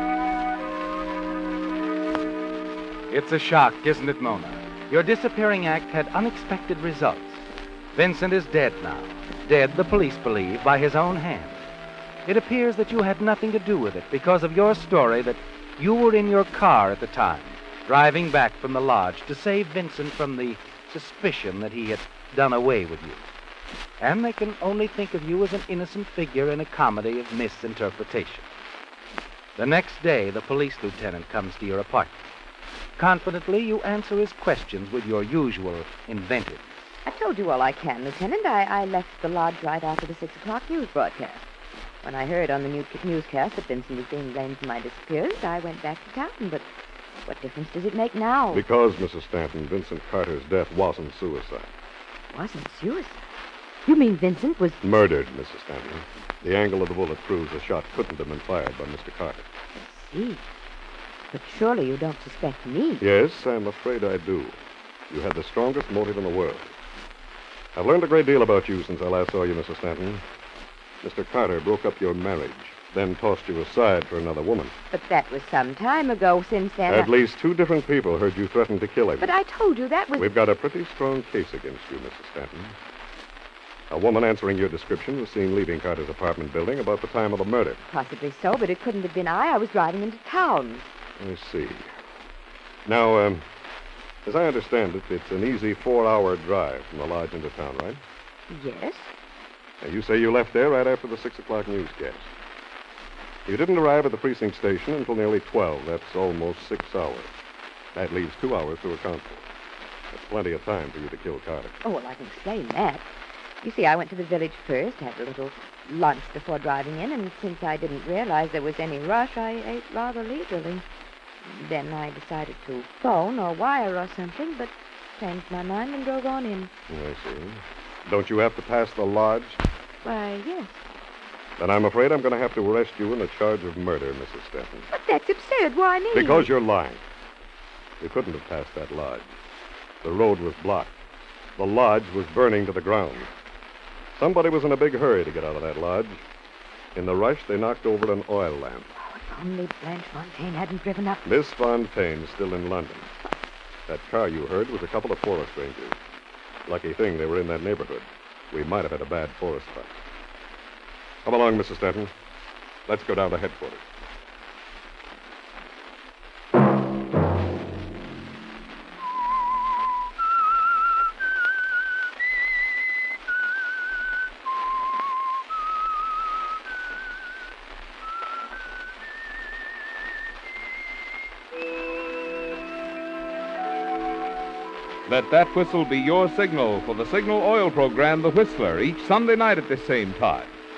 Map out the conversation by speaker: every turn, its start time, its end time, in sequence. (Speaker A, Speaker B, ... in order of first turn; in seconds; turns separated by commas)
Speaker A: 3.1-11.6, Speaker A: 12.2-23.2, Speaker A: 24.0-28.5, Speaker A: 29.6-32.1, Speaker A: 33.0-36.6, Speaker B: 37.0-41.4, Speaker B: 42.0-46.6, Speaker B: 47.2-48.6, Speaker C: 48.5-51.7, Speaker B: 52.3-53.2, Speaker B: 53.9-54.8, Speaker C: 54.8-59.5, Speaker B: 59.7-60.4, Speaker B: 61.3-63.0, Speaker C: 63.0-64.6, Speaker C: 65.1-66.8, Speaker C: 67.7-70.2, Speaker C: 71.0-74.7, Speaker B: 74.9-77.1, Speaker C: 76.9-79.3, Speaker B: 79.2-80.3, Speaker C: 80.2-82.8, Speaker C: 83.9-87.8, Speaker B: 87.9-90.8, Speaker C: 91.2-91.9, Speaker C: 92.8-93.5, Speaker C: 94.2-98.0, Speaker B: 98.5-99.1, Speaker C: 99.8-102.3, Speaker C: 103.5-107.3, Speaker C: 107.9-109.5, Speaker C: 110.1-111.8, Speaker B: 111.8-113.1, Speaker B: 113.6-120.8, Speaker B: 121.5-126.7, Speaker C: 126.9-129.6, Speaker B: 130.0-130.8, Speaker C: 131.6-134.9, Speaker B: 134.9-136.5, Speaker C: 136.1-137.0, Speaker C: 138.0-139.4, Speaker C: 140.0-141.0, Speaker C: 141.6-143.3, Speaker C: 144.1-146.2, Speaker C: 146.9-148.9, Speaker B: 149.1-151.2, Speaker C: 151.2-153.1, Speaker C: 153.9-156.0, Speaker C: 156.7-160.0, Speaker C: 161.2-162.1, Speaker C: 162.9-163.8, Speaker D: 185.1-190.6